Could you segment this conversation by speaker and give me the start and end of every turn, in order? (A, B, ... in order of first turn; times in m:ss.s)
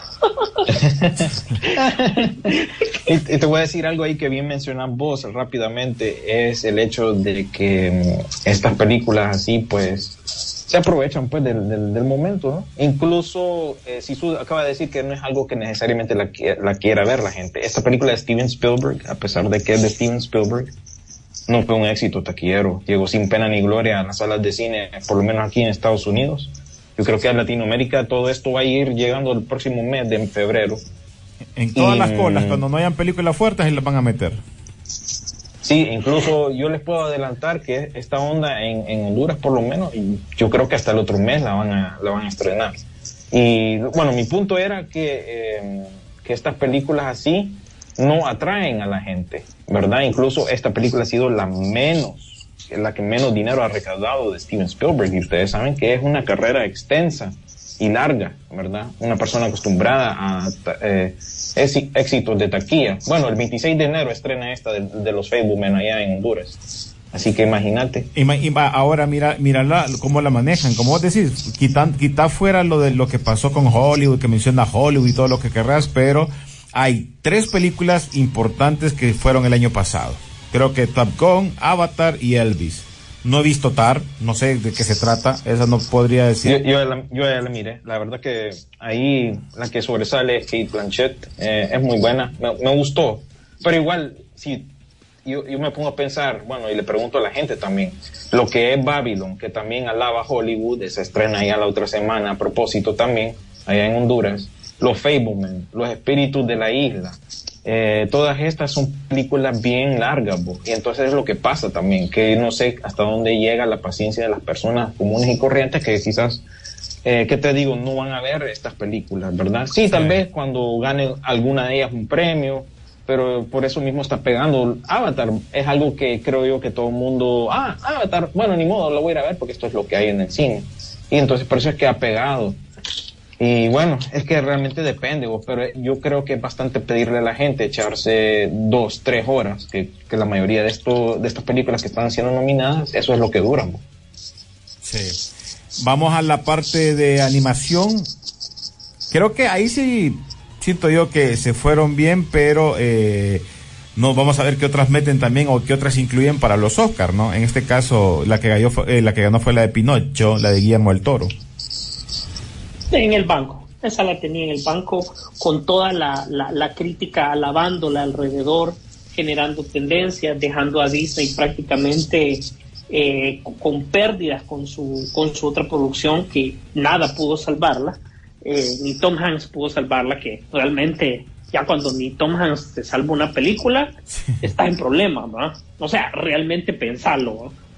0:00.2-0:00.7 A
0:00.7-0:20.7 B
0:01.6-0:02.9 A
0:21.5-0:30.8 B
0:31.6-0:34.4 C
0:31.8-0:32.6 B
0:35.6-0:42.8 B
0:43.3-1:08.1 B
1:08.1-1:26.6 C
1:26.4-1:34.7 B
1:35.2-1:56.4 B
1:57.0-2:12.6 B
2:13.4-2:23.8 B
2:24.8-2:25.2 C
2:25.8-2:28.1 C
2:29.1-2:33.4 C
2:34.0-2:41.3 C
2:42.9-3:07.5 A